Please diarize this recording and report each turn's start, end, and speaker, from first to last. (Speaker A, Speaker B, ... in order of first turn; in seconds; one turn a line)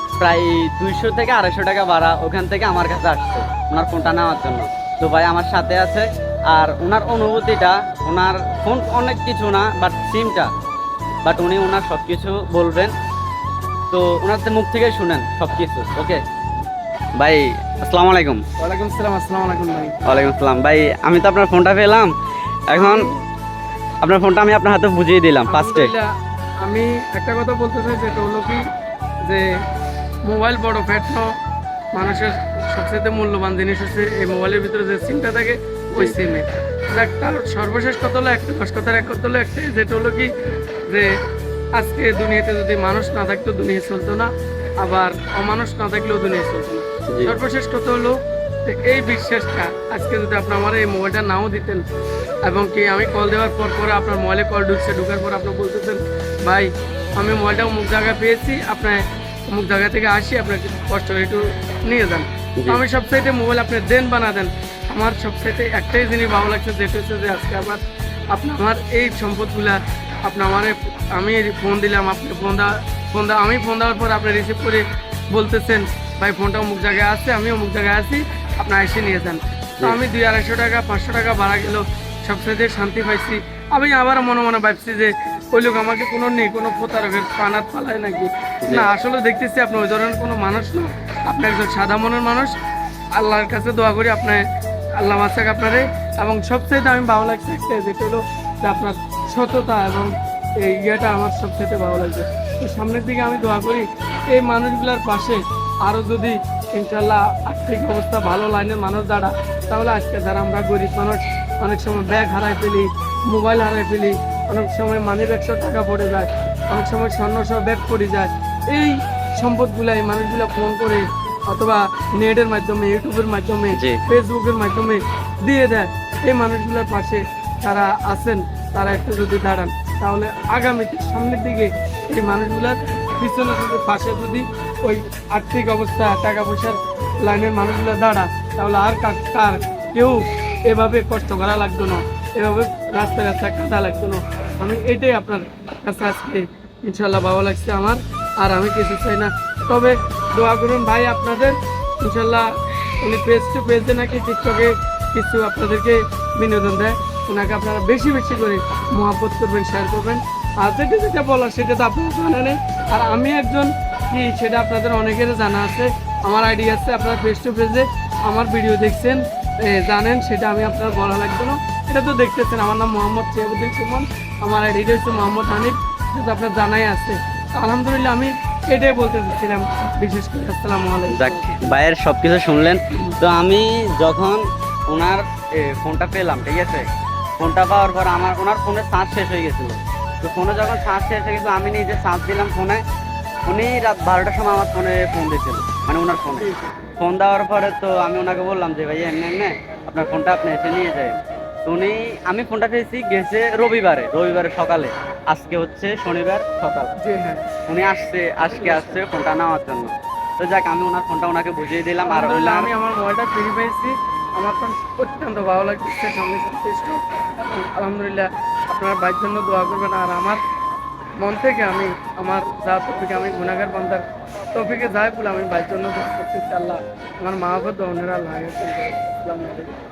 Speaker A: 0.2-10.5
Speaker A: 11.2-12.9
Speaker A: 13.9-16.2
Speaker A: 17.2-18.4
Speaker B: 18.6-20.0
Speaker A: 20.1-22.1
Speaker A: 22.7-23.1
Speaker B: 22.7-23.2
Speaker A: 24.0-25.9
Speaker B: 25.5-26.1
Speaker B: 26.6-28.6
Speaker B: 30.2-31.3
Speaker B: 31.9-40.3
Speaker B: 41.8-51.8
Speaker A: 47.1-47.4
Speaker B: 52.4-92.5
Speaker B: 93.2-94.4
Speaker B: 95.0-152.5
Speaker A: 123.7-124.0
Speaker B: 153.0-181.6
Speaker A: 181.1-186.9
Speaker A: 187.4-192.8
Speaker A: 193.5-196.5
Speaker B: 196.4-196.7
Speaker A: 197.0-206.9
Speaker B: 207.0-207.4
Speaker A: 207.7-212.7
Speaker B: 208.5-209.0
Speaker B: 212.0-220.4
Speaker B: 221.2-229.7